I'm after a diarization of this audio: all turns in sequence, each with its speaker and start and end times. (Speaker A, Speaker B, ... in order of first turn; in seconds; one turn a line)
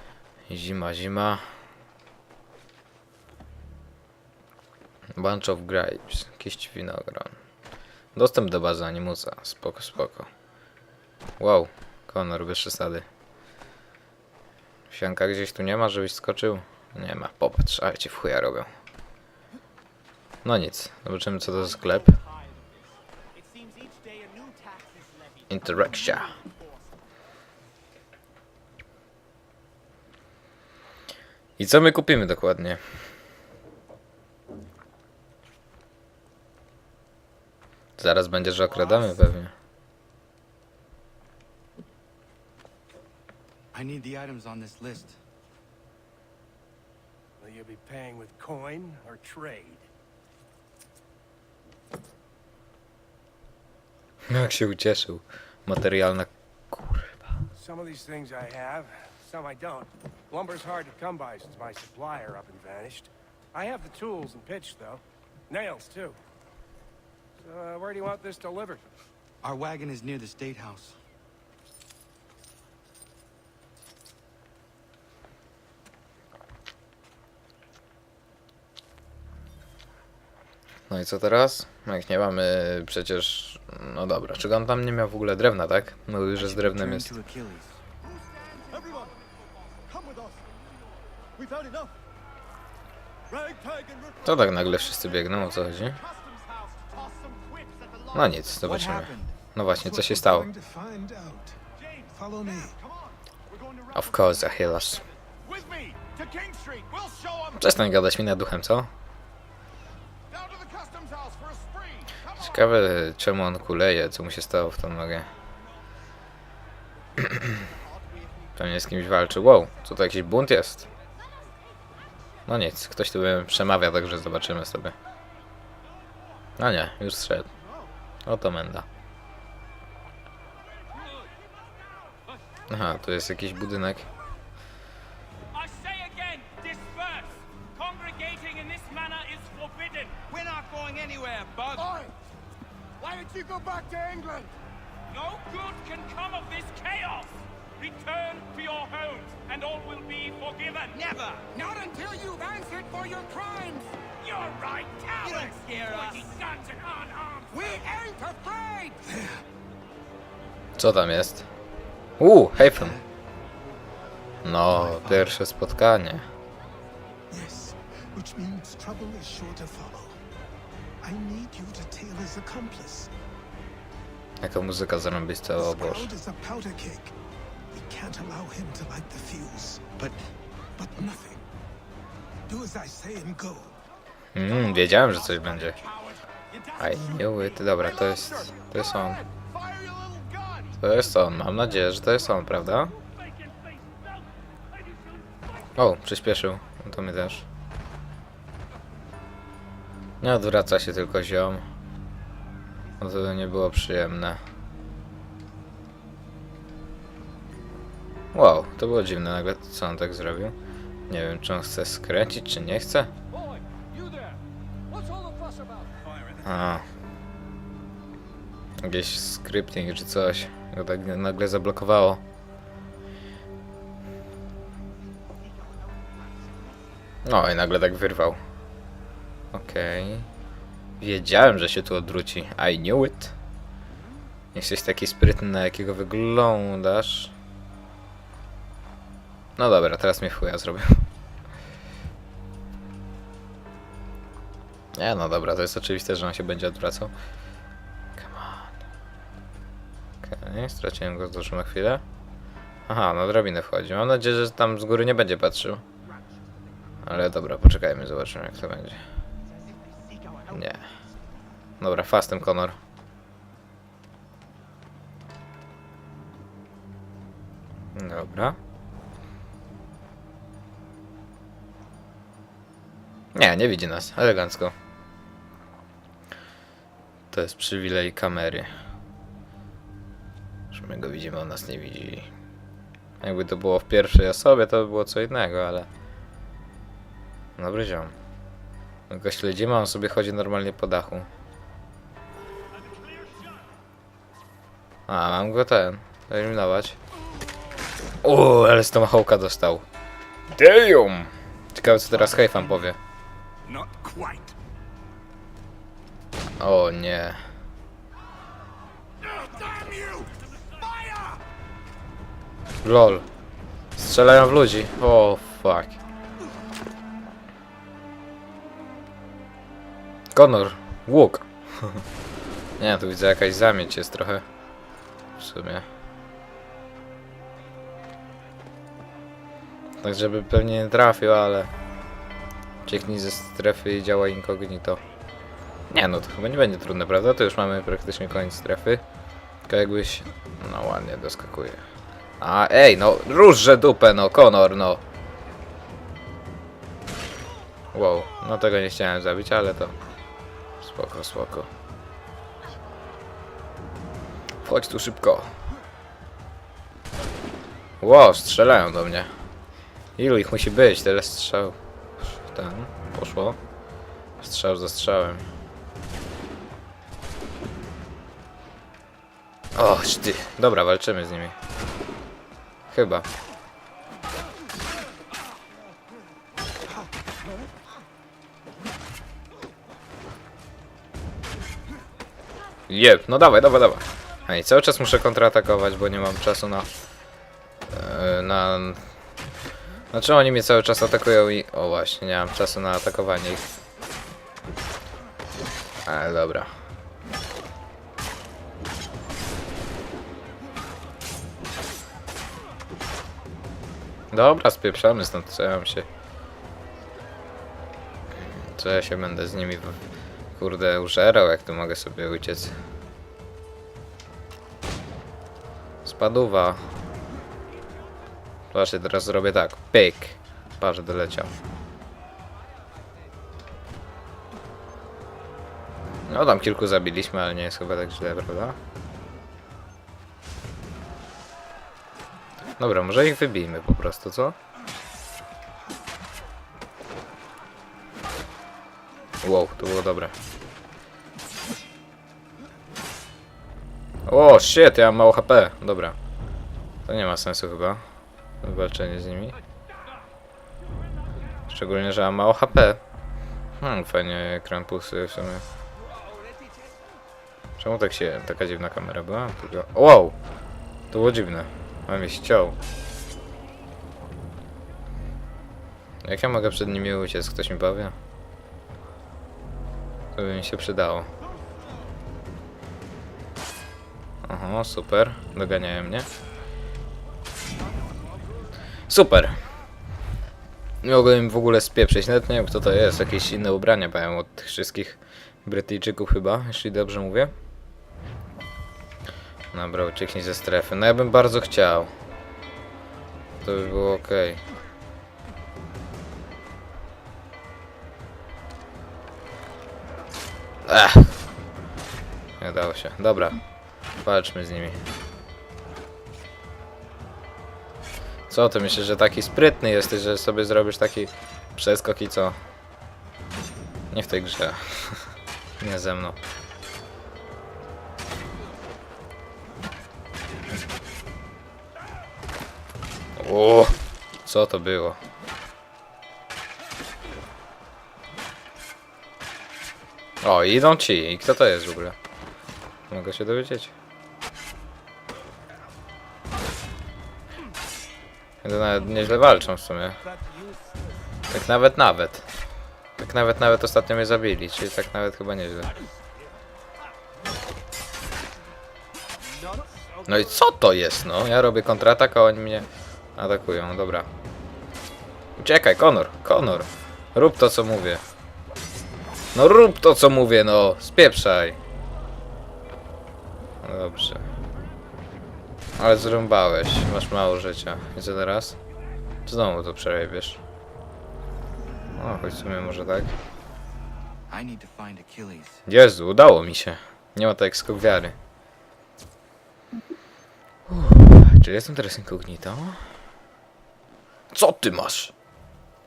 Speaker A: 0.5-1.4
Speaker A: 5.2-7.3
Speaker A: 8.2-10.3
Speaker A: 11.4-13.0
Speaker A: 14.9-18.7
Speaker A: 20.4-22.2
Speaker B: 21.4-26.9
Speaker A: 25.5-26.4
Speaker A: 31.6-32.8
Speaker A: 38.0-39.5
Speaker C: 38.5-39.2
Speaker D: 43.7-45.2
Speaker C: 47.4-49.8
Speaker A: 54.3-57.1
Speaker C: 57.5-66.2
Speaker C: 67.4-68.8
Speaker D: 69.4-71.0
Speaker A: 80.9-87.2
Speaker D: 86.3-87.8
Speaker C: 88.0-90.5
Speaker C: 91.3-91.9
Speaker C: 93.3-98.6
Speaker A: 94.2-96.0
Speaker A: 98.1-100.5
Speaker D: 98.6-99.4
Speaker E: 99.7-101.6
Speaker C: 101.8-107.8
Speaker E: 102.1-102.8
Speaker A: 103.9-105.0
Speaker A: 107.6-108.9
Speaker C: 110.3-112.7
Speaker A: 112.4-115.3
Speaker A: 117.2-117.5
Speaker A: 118.6-120.9
Speaker B: 118.8-119.4
Speaker A: 122.5-125.0
Speaker A: 126.6-127.5
Speaker A: 128.2-128.8
Speaker A: 132.7-134.1
Speaker B: 135.5-142.0
Speaker C: 141.7-142.1
Speaker C: 143.0-144.5
Speaker B: 145.1-151.4
Speaker F: 150.9-153.9
Speaker B: 154.2-157.8
Speaker C: 155.1-156.2
Speaker F: 155.3-156.3
Speaker F: 157.5-159.0
Speaker A: 160.8-161.5
Speaker A: 162.2-163.0
Speaker D: 162.6-163.1
Speaker A: 164.4-166.2
Speaker D: 164.6-165.3
Speaker E: 167.3-170.2
Speaker E: 171.0-173.1
Speaker A: 174.4-176.1
Speaker E: 175.6-177.1
Speaker E: 177.7-179.8
Speaker E: 180.8-181.4
Speaker E: 182.5-183.8
Speaker A: 184.3-185.8
Speaker C: 184.4-191.1
Speaker A: 186.8-189.2
Speaker A: 190.8-192.9
Speaker C: 192.3-195.4
Speaker A: 195.8-197.4
Speaker A: 200.2-201.6
Speaker A: 203.0-204.4
Speaker A: 208.3-210.6
Speaker A: 211.1-213.1
Speaker C: 213.3-216.7
Speaker A: 216.4-216.8
Speaker A: 218.8-222.2
Speaker B: 225.6-225.9
Speaker A: 227.2-228.4
Speaker A: 229.5-230.3
Speaker A: 231.0-233.3
Speaker A: 234.5-237.3
Speaker A: 239.6-241.1
Speaker A: 244.9-247.1
Speaker A: 248.2-248.7
Speaker A: 250.2-252.0
Speaker A: 252.9-255.8
Speaker A: 257.0-259.0
Speaker B: 259.4-260.9
Speaker A: 260.5-260.8
Speaker A: 261.8-262.8
Speaker A: 267.9-268.6
Speaker A: 273.3-274.7
Speaker A: 277.3-278.7
Speaker A: 280.7-282.3
Speaker A: 283.2-285.9
Speaker A: 287.6-288.1
Speaker A: 289.1-291.3
Speaker A: 295.1-297.0
Speaker A: 298.2-299.8
Speaker A: 300.6-303.0
Speaker C: 303.7-304.5
Speaker A: 306.6-307.4
Speaker C: 309.4-310.3
Speaker C: 310.8-311.2
Speaker A: 312.8-313.2
Speaker A: 314.0-316.0
Speaker A: 320.3-322.0
Speaker A: 322.8-324.4
Speaker A: 325.4-325.9
Speaker A: 330.0-331.7
Speaker A: 332.9-335.0
Speaker A: 335.9-339.0
Speaker A: 339.7-341.8
Speaker A: 342.4-345.0
Speaker A: 347.9-349.9
Speaker A: 350.8-351.7
Speaker A: 354.6-355.5
Speaker A: 358.0-359.3
Speaker A: 360.2-363.6
Speaker A: 364.4-365.4
Speaker A: 369.7-371.5
Speaker A: 372.9-373.3
Speaker A: 382.9-386.9
Speaker A: 387.9-389.0
Speaker A: 390.1-393.6
Speaker A: 396.1-396.7
Speaker A: 404.3-406.1
Speaker A: 408.3-410.0
Speaker A: 410.6-412.7
Speaker A: 416.0-416.8
Speaker A: 418.7-421.6
Speaker A: 426.3-428.8
Speaker A: 432.8-434.6
Speaker A: 439.4-440.3
Speaker A: 444.3-446.1
Speaker A: 447.1-448.0
Speaker A: 448.6-449.6
Speaker A: 451.7-453.0
Speaker A: 453.8-455.6
Speaker A: 457.8-460.4
Speaker A: 461.1-462.8
Speaker A: 466.2-468.1
Speaker A: 470.4-471.3
Speaker A: 474.4-476.3
Speaker A: 479.1-479.6
Speaker A: 481.0-487.5
Speaker A: 489.7-492.1
Speaker A: 493.6-494.6
Speaker A: 500.9-501.3
Speaker A: 502.6-503.6
Speaker A: 504.2-505.0
Speaker A: 508.5-512.5
Speaker A: 514.1-515.2
Speaker A: 515.8-516.4
Speaker A: 523.4-525.2
Speaker A: 530.4-532.1
Speaker A: 533.1-533.9
Speaker A: 538.6-540.2
Speaker C: 540.2-540.8
Speaker A: 541.5-542.5
Speaker A: 543.2-545.9
Speaker C: 549.6-550.6
Speaker A: 550.3-554.3
Speaker A: 555.6-558.2
Speaker A: 559.5-561.8
Speaker A: 563.8-564.4
Speaker A: 566.0-568.8
Speaker A: 569.5-570.6
Speaker A: 572.2-573.3
Speaker D: 574.5-575.8
Speaker A: 575.9-578.3
Speaker A: 580.9-583.1
Speaker A: 584.5-585.3